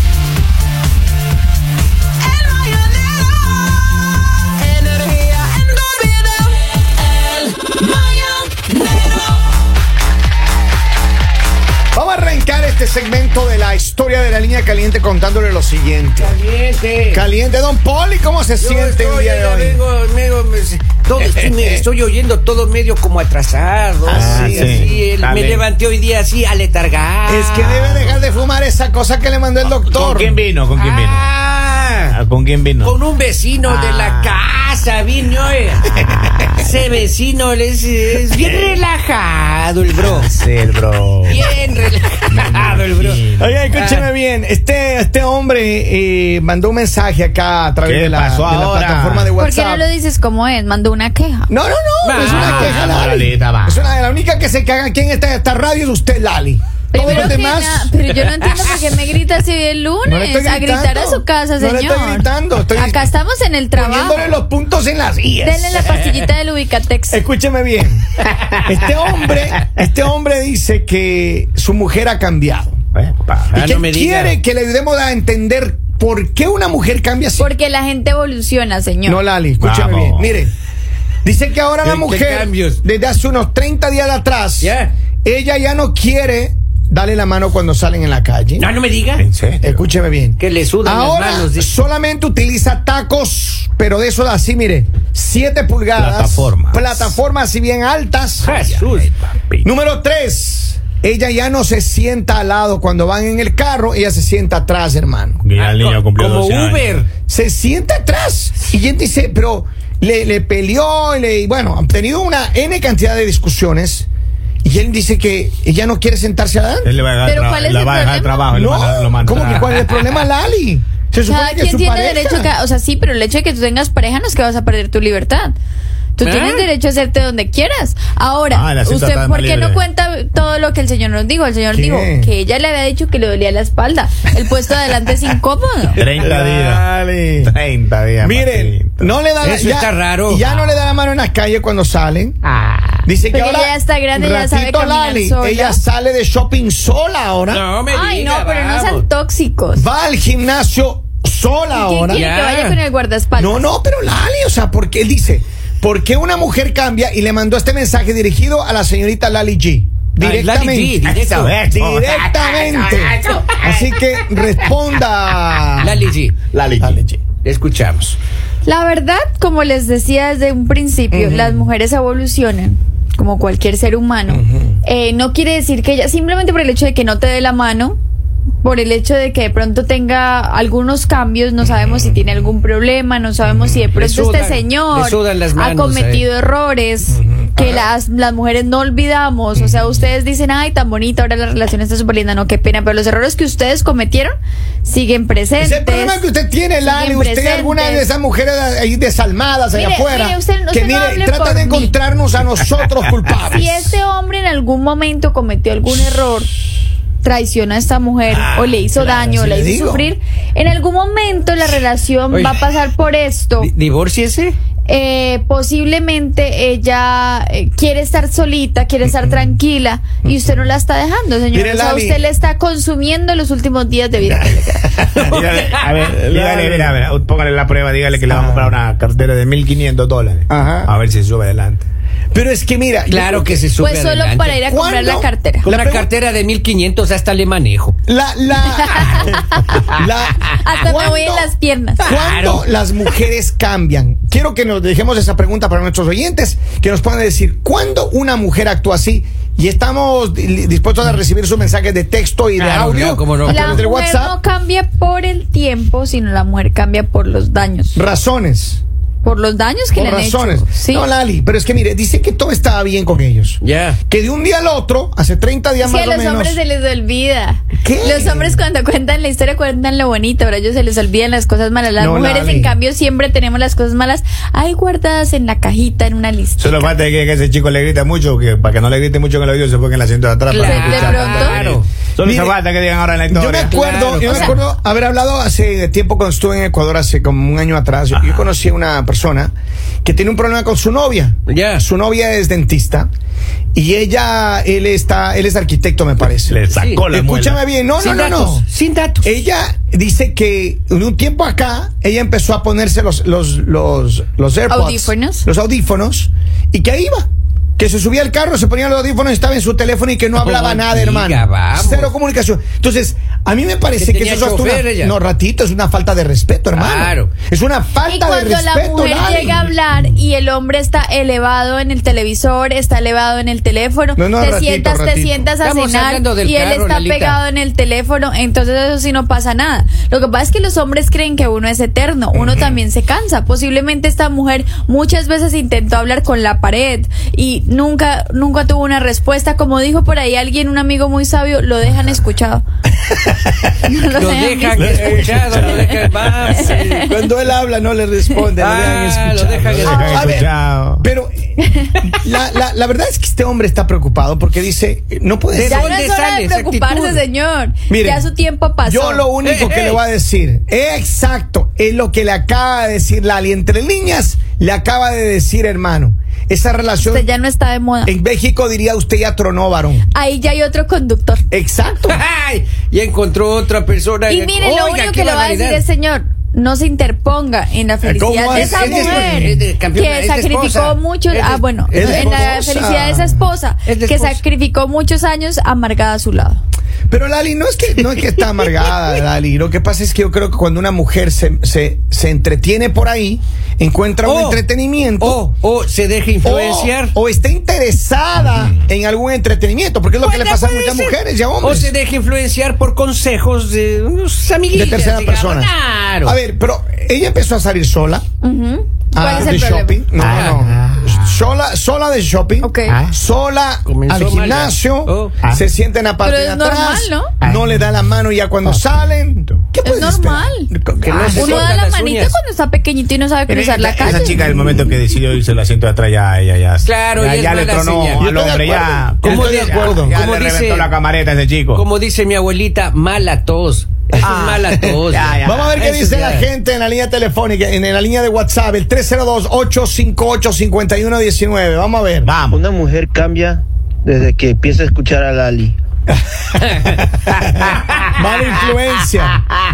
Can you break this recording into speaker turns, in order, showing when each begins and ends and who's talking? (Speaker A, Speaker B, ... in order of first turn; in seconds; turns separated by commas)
Speaker A: 2.3-3.3, Speaker A: 4.6-6.6, Speaker A: 7.1-9.0, Speaker B: 11.9-16.4, Speaker A: 16.2-17.2, Speaker B: 17.1-19.8, Speaker A: 18.6-28.2, Speaker B: 21.4-21.8, Speaker B: 24.1-24.9, Speaker C: 24.1-25.6, Speaker B: 27.3-30.4, Speaker C: 29.8-31.2, Speaker A: 30.7-32.2, Speaker C: 32.1-33.0, Speaker A: 32.8-40.3, Speaker C: 33.6-34.4, Speaker C: 36.1-36.5, Speaker C: 40.0-41.5, Speaker A: 41.3-44.1, Speaker C: 42.3-43.5, Speaker B: 43.4-49.9, Speaker C: 47.8-49.3, Speaker D: 49.4-51.5, Speaker B: 51.5-57.9, Speaker A: 52.0-53.0, Speaker C: 52.2-53.9, Speaker D: 56.9-64.3, Speaker A: 57.0-57.2, Speaker B: 60.0-63.1, Speaker B: 63.7-66.1, Speaker D: 65.4-67.2, Speaker B: 67.1-72.8, Speaker C: 72.9-73.5, Speaker A: 73.5-74.4, Speaker B: 73.5-77.5, Speaker D: 77.4-79.2, Speaker B: 79.0-80.5, Speaker C: 79.6-80.3, Speaker B: 81.2-88.7, Speaker A: 81.8-82.8, Speaker A: 84.6-84.9, Speaker A: 88.6-89.2, Speaker C: 89.2-89.8, Speaker B: 89.6-98.5, Speaker A: 90.4-91.7, Speaker C: 96.0-97.1, Speaker A: 98.4-99.1, Speaker C: 98.5-99.7, Speaker B: 99.6-105.4, Speaker C: 105.4-107.0, Speaker A: 105.5-107.1, Speaker B: 107.3-114.1, Speaker B: 114.6-116.9, Speaker C: 116.8-119.7, Speaker D: 117.2-118.5, Speaker B: 118.5-122.5, Speaker D: 121.2-125.5, Speaker D: 126.2-136.0, Speaker A: 126.2-126.7, Speaker C: 128.5-129.8, Speaker B: 131.7-132.3, Speaker C: 136.0-139.1, Speaker A: 136.0-136.6, Speaker B: 136.2-137.5, Speaker B: 138.2-142.4, Speaker A: 139.4-140.9, Speaker A: 142.4-143.1, Speaker B: 143.0-147.6, Speaker D: 143.3-145.8, Speaker A: 147.5-149.0, Speaker D: 147.9-149.8, Speaker B: 149.7-152.2, Speaker D: 151.7-153.7, Speaker A: 152.1-152.8, Speaker B: 153.4-161.0, Speaker A: 160.2-161.5, Speaker C: 161.0-163.6, Speaker B: 161.7-165.9, Speaker A: 165.8-166.3, Speaker C: 166.5-167.0, Speaker B: 166.8-167.2, Speaker A: 167.4-168.2, Speaker D: 168.6-178.0, Speaker B: 171.1-171.7, Speaker B: 174.3-174.8, Speaker D: 178.6-194.3, Speaker B: 183.4-183.8, Speaker A: 183.9-186.2, Speaker B: 187.1-187.9, Speaker B: 189.6-190.0, Speaker D: 194.8-196.2, Speaker B: 195.6-203.9, Speaker D: 196.8-198.1, Speaker D: 199.7-202.0, Speaker D: 203.5-206.5, Speaker D: 207.2-213.7, Speaker B: 209.0-210.1, Speaker A: 212.3-212.6, Speaker A: 213.6-214.6, Speaker D: 214.9-224.8, Speaker B: 219.0-219.6, Speaker B: 220.2-220.7, Speaker B: 221.5-222.2, Speaker B: 224.2-225.2, Speaker C: 225.2-231.8, Speaker A: 225.2-226.1, Speaker B: 226.1-227.0, Speaker B: 228.3-228.8, Speaker B: 230.5-230.9, Speaker B: 232.3-233.5, Speaker A: 233.1-234.6, Speaker D: 233.8-235.7, Speaker B: 234.6-236.1, Speaker A: 235.6-237.9, Speaker B: 238.1-254.3, Speaker D: 238.8-239.7, Speaker D: 240.6-242.0, Speaker A: 242.0-242.6, Speaker A: 252.6-253.8, Speaker D: 253.5-258.0, Speaker B: 257.9-258.8, Speaker D: 259.2-261.1, Speaker B: 259.9-266.6, Speaker A: 263.6-264.0, Speaker D: 265.8-276.9, Speaker B: 267.8-268.6, Speaker B: 272.0-272.7, Speaker C: 276.6-283.8, Speaker A: 280.5-281.9, Speaker D: 280.6-281.6, Speaker B: 282.2-282.6, Speaker B: 283.3-289.5, Speaker A: 283.7-284.6, Speaker D: 284.2-284.5, Speaker B: 290.0-293.1, Speaker A: 291.5-291.8, Speaker B: 293.7-298.6, Speaker C: 296.4-297.6, Speaker A: 296.7-297.0, Speaker A: 298.0-299.3, Speaker B: 299.2-320.0, Speaker D: 304.7-305.4, Speaker A: 310.4-312.1, Speaker A: 314.0-315.1, Speaker A: 316.7-317.3, Speaker D: 318.0-342.6, Speaker B: 324.1-325.5, Speaker A: 325.6-327.4, Speaker B: 332.3-332.8, Speaker D: 343.9-345.7, Speaker A: 344.1-347.1, Speaker B: 344.9-345.8, Speaker D: 346.5-346.9, Speaker B: 346.8-356.0, Speaker A: 348.6-350.2, Speaker D: 349.8-350.4, Speaker C: 349.8-351.0, Speaker A: 355.5-357.2, Speaker D: 355.6-359.3, Speaker B: 357.9-367.3, Speaker A: 359.4-360.0, Speaker D: 367.0-368.1, Speaker B: 368.0-370.1, Speaker D: 370.1-371.4, Speaker B: 371.5-372.2, Speaker A: 372.1-375.8, Speaker D: 374.3-386.6, Speaker B: 378.0-379.6, Speaker A: 378.5-382.4, Speaker B: 381.9-383.4, Speaker A: 383.9-384.4, Speaker B: 387.1-395.4, Speaker A: 388.6-388.9, Speaker A: 394.2-394.6, Speaker A: 395.2-397.1, Speaker B: 396.4-401.9, Speaker C: 398.4-398.7, Speaker A: 400.2-406.4, Speaker B: 404.7-408.2, Speaker D: 408.4-410.0, Speaker B: 409.1-421.7, Speaker C: 410.2-411.5, Speaker A: 410.2-410.6, Speaker D: 412.6-412.9, Speaker C: 412.9-413.1, Speaker A: 413.9-415.3, Speaker D: 416.2-417.3, Speaker C: 417.4-419.5, Speaker D: 419.8-420.7, Speaker A: 421.0-422.4, Speaker D: 421.3-424.4, Speaker C: 423.5-431.8, Speaker B: 424.1-424.8, Speaker A: 426.8-428.3, Speaker B: 428.2-430.2, Speaker A: 429.2-431.0, Speaker A: 431.7-436.5, Speaker C: 434.2-435.8, Speaker B: 435.4-442.3, Speaker C: 442.2-442.6, Speaker E: 442.5-445.8, Speaker A: 446.6-447.0, Speaker B: 448.1-449.4